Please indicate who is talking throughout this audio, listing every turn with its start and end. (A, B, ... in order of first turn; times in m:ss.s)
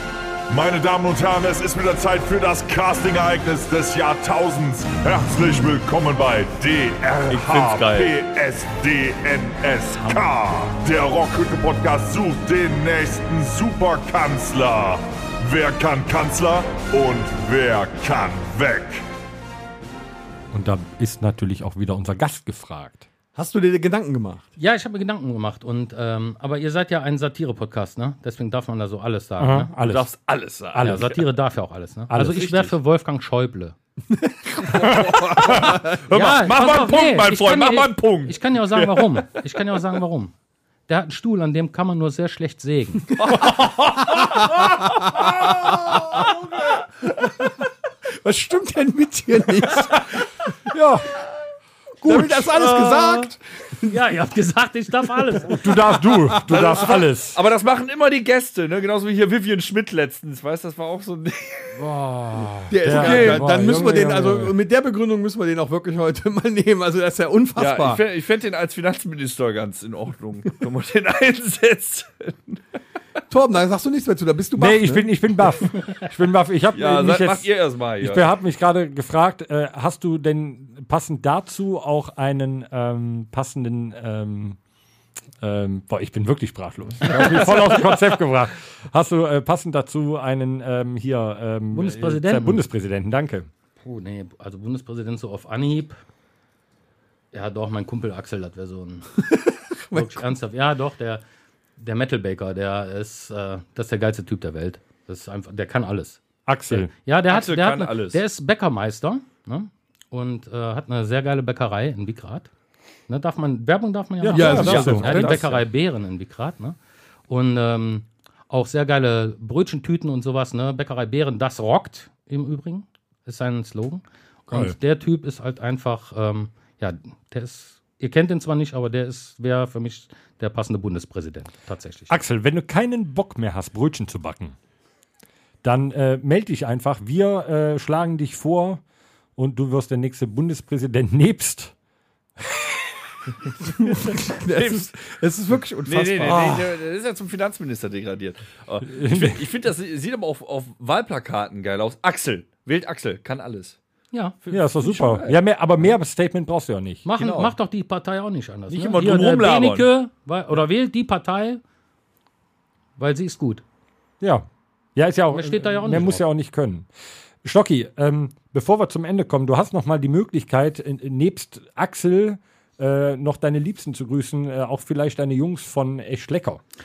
0:00.5-0:19.0 A
0:07.3-0:08.1 B
0:20.5-0:23.1 C
0:23.4-0:24.5 D
0:24.6-0:29.7 E
0:29.4-0:30.0 C
0:29.8-0:31.1 B
0:30.8-0:31.2 C
0:30.8-0:33.8 E
0:32.1-0:32.7 C
0:34.1-0:36.0 D
0:34.8-0:39.3 B
0:36.1-0:40.3 E
0:40.9-0:43.1 E
0:43.2-0:45.3 B
0:45.2-0:46.2 D
0:48.2-0:50.3 D
0:50.7-0:51.2 C
0:52.0-0:52.8 C
0:52.0-0:54.0 D
0:53.9-0:55.7 E
0:55.4-0:57.4 C
0:55.9-0:57.0 D
0:56.5-1:01.9 B
1:01.8-1:04.6 C
1:02.7-1:08.0 D
1:02.9-1:03.4 E
1:03.0-1:03.5 B
1:07.6-1:12.6 B
1:13.3-1:15.4 D
1:14.6-1:17.5 C
1:16.7-1:18.4 B
1:18.0-1:24.6 C
1:25.4-1:33.5 C
1:27.1-1:27.9 B
1:31.7-1:32.6 E
1:33.8-1:36.0 E
1:37.3-1:39.2 E
1:39.5-1:40.2 D
1:39.9-1:41.2 E
1:41.8-1:52.5 E
1:46.5-1:46.9 C
1:47.3-1:48.2 B
1:53.1-1:56.8 E
1:54.2-1:55.4 C
1:54.3-1:55.4 D
1:54.4-1:55.6 B
1:57.3-2:12.1 E
2:04.5-2:04.8 C
2:12.1-2:14.6 C
2:15.6-2:18.8 C
2:19.4-2:21.7 C
2:23.6-2:26.7 D
2:24.5-2:24.9 B
2:25.8-2:33.8 B
2:28.9-2:29.4 C
2:34.5-2:35.9 B
2:34.5-2:37.0 C
2:37.0-2:41.6 E
2:37.2-2:37.5 B
2:38.7-2:39.9 B
2:43.0-2:43.6 E
2:44.2-2:46.9 C
2:45.3-2:46.2 E
2:47.4-2:56.6 C